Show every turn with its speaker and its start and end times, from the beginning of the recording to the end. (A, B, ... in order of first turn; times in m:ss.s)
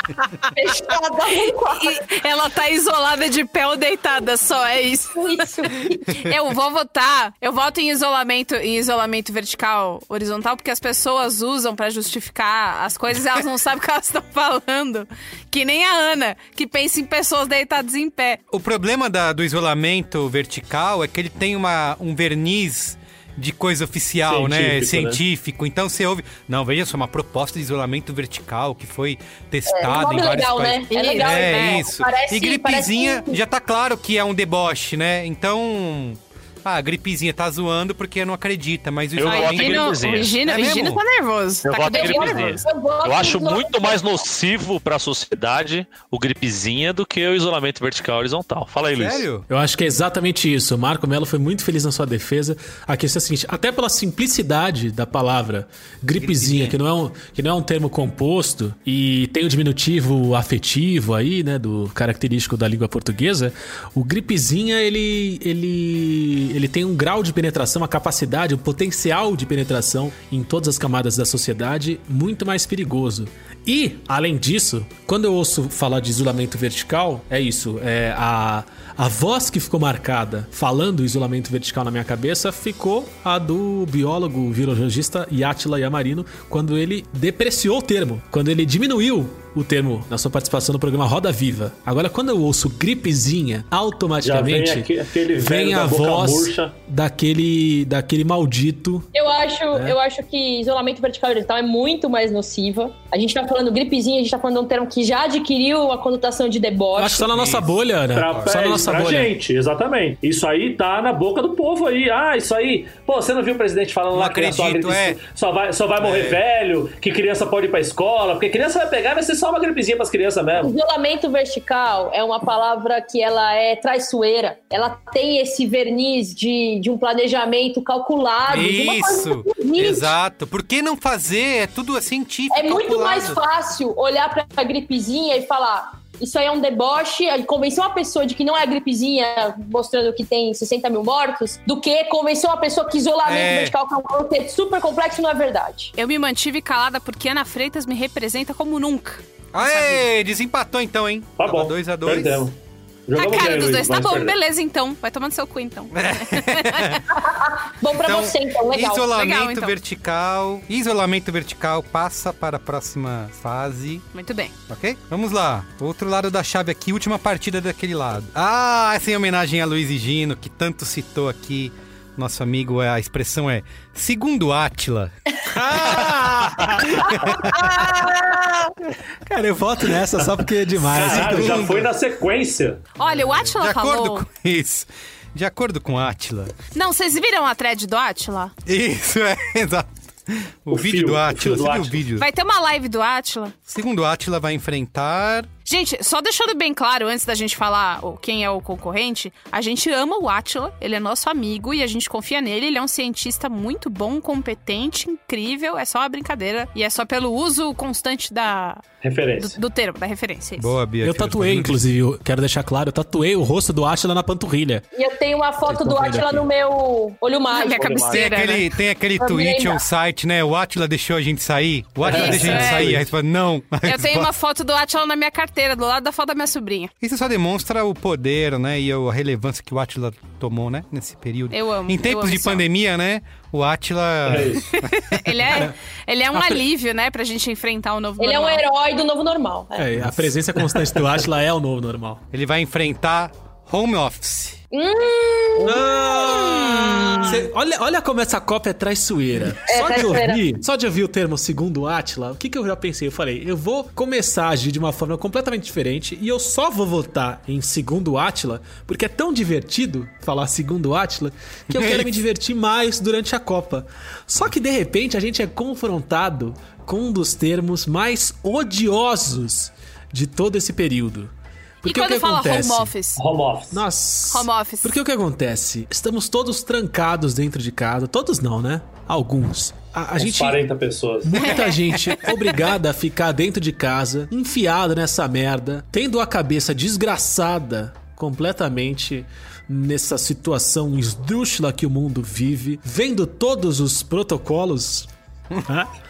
0:00.4-0:00.7 A
0:00.5-0:02.0 B
0:01.5-0:18.4 A
0:05.2-0:06.1 B
0:18.5-0:41.0 C
0:24.3-0:25.2 D
0:29.7-0:33.4 B
0:30.9-0:31.8 A
0:39.2-0:40.4 E
0:39.2-0:42.6 A
0:41.6-0:49.3 E
0:41.8-0:44.3 B
0:48.9-0:49.5 C
0:49.5-1:39.1 F
0:56.2-0:56.8 C
1:34.2-1:36.7 D
1:39.1-1:47.3 B
1:47.0-1:49.3 F
1:47.3-1:47.7 C
1:48.1-2:00.8 D
1:48.3-1:48.6 C
1:54.1-1:55.2 C
1:56.0-1:56.4 C
2:00.6-2:10.1 B
2:08.5-2:13.4 C
2:12.5-2:25.9 B
2:23.2-2:23.8 C
2:26.0-2:30.0 A
2:29.5-2:32.5 C
2:31.4-2:32.6 D
2:33.1-2:34.4 D
2:33.2-2:37.0 A
2:35.9-2:37.0 C
2:37.1-2:39.2 B
2:38.0-2:44.1 C
2:39.1-2:39.8 A
2:44.1-2:44.5 A
2:44.7-2:55.1 C
2:55.5-2:57.6 F
2:55.8-2:57.8 C
2:57.4-2:58.7 B
2:59.3-3:01.8 F
3:00.8-3:02.8 D
3:00.9-3:01.9 C
3:03.0-3:04.2 A
3:03.0-3:06.6 C
3:06.7-3:08.5 A
3:08.6-3:12.3 C
3:10.7-3:12.0 D
3:12.2-3:13.6 A
3:13.7-3:15.5 C
3:15.7-3:28.8 A
3:29.0-3:29.6 D
3:29.4-3:30.7 A
3:30.6-3:31.8 C
3:31.0-3:34.9 F
3:35.0-3:38.2 B
3:35.6-3:36.5 F
3:37.5-3:38.7 A
3:38.1-3:44.3 C
3:39.2-3:39.8 B
3:42.0-3:43.0 D
3:42.1-3:42.9 A
3:43.8-3:46.9 A
3:47.0-3:55.3 C
3:51.5-3:52.6 A
3:54.3-3:54.6 D
3:54.8-3:58.6 A
3:56.3-3:56.6 F
3:58.2-4:00.4 B
3:59.8-4:02.2 F
4:02.3-4:04.6 C
4:04.7-4:07.4 B
4:05.6-4:31.3 F
4:09.7-4:10.5 B
4:21.7-4:22.2 C
4:31.8-4:32.9 F
4:31.8-4:33.2 A
4:33.2-4:33.8 D
4:33.7-4:40.6 F
4:34.3-4:35.0 A
4:40.2-4:41.4 D
4:41.2-4:55.1 F
4:41.4-4:42.7 A